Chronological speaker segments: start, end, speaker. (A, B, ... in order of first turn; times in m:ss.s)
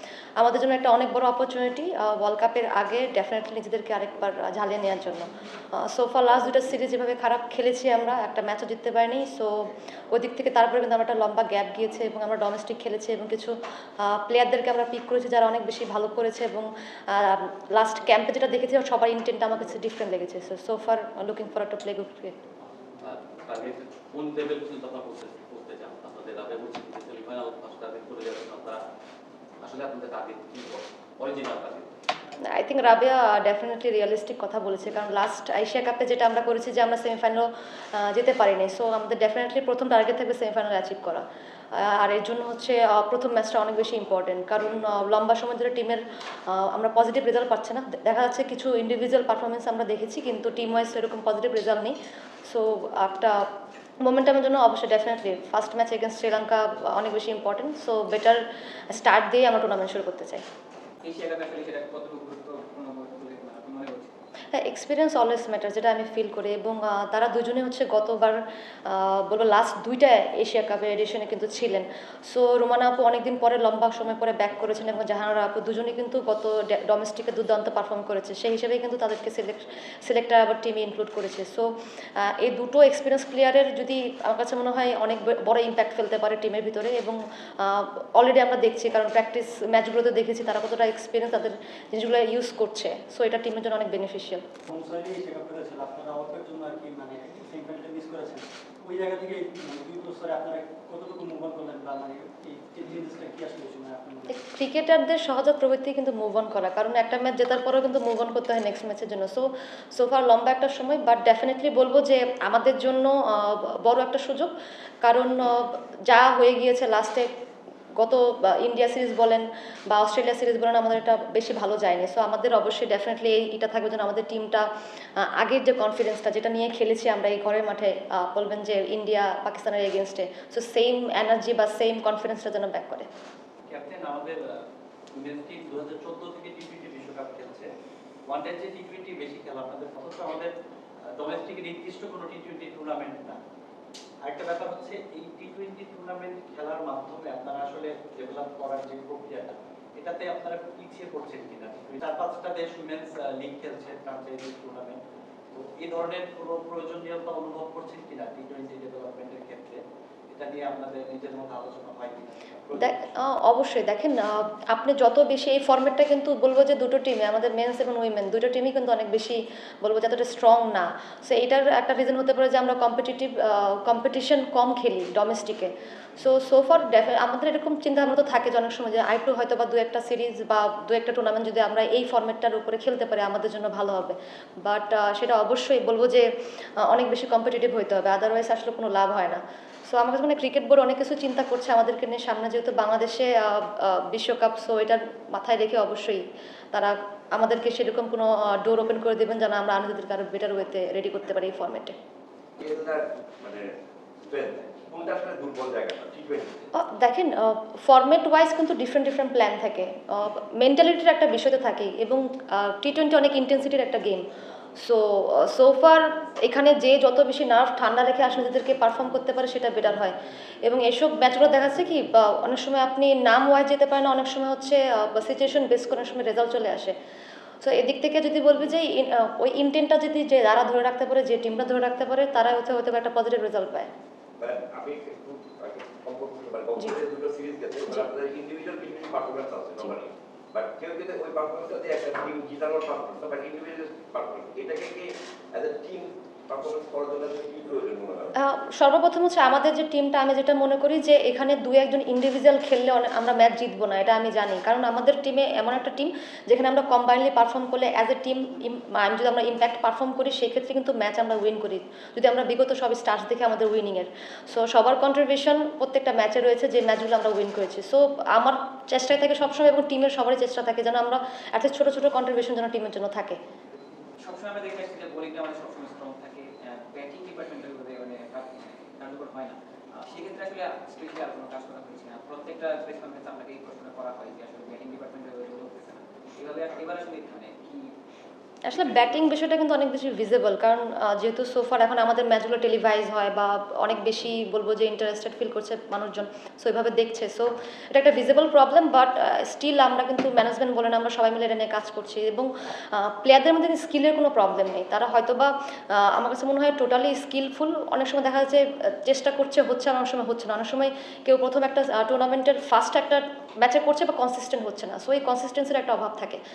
0:00.4-0:22.4 A
0:23.0-0:28.8 B
0:29.6-0:31.9 B
0:32.4-0:53.5 A
0:54.0-1:00.4 A
1:01.0-1:04.2 C
1:04.5-1:34.4 A
1:34.7-1:44.3 D
1:44.3-1:54.5 A
1:55.0-1:57.3 A
1:58.0-2:13.1 A
2:13.7-2:17.7 E
2:18.3-2:20.5 E
2:21.2-2:23.4 E
2:24.2-2:35.0 E
2:35.5-2:43.0 E
2:42.8-3:22.0 A
3:22.6-3:26.7 F
3:26.8-3:47.0 A
3:47.6-3:53.9 A
3:54.4-4:08.3 F
4:08.4-4:33.4 A
4:34.2-4:47.9 C
4:48.7-5:16.4 A
4:48.7-4:49.3 C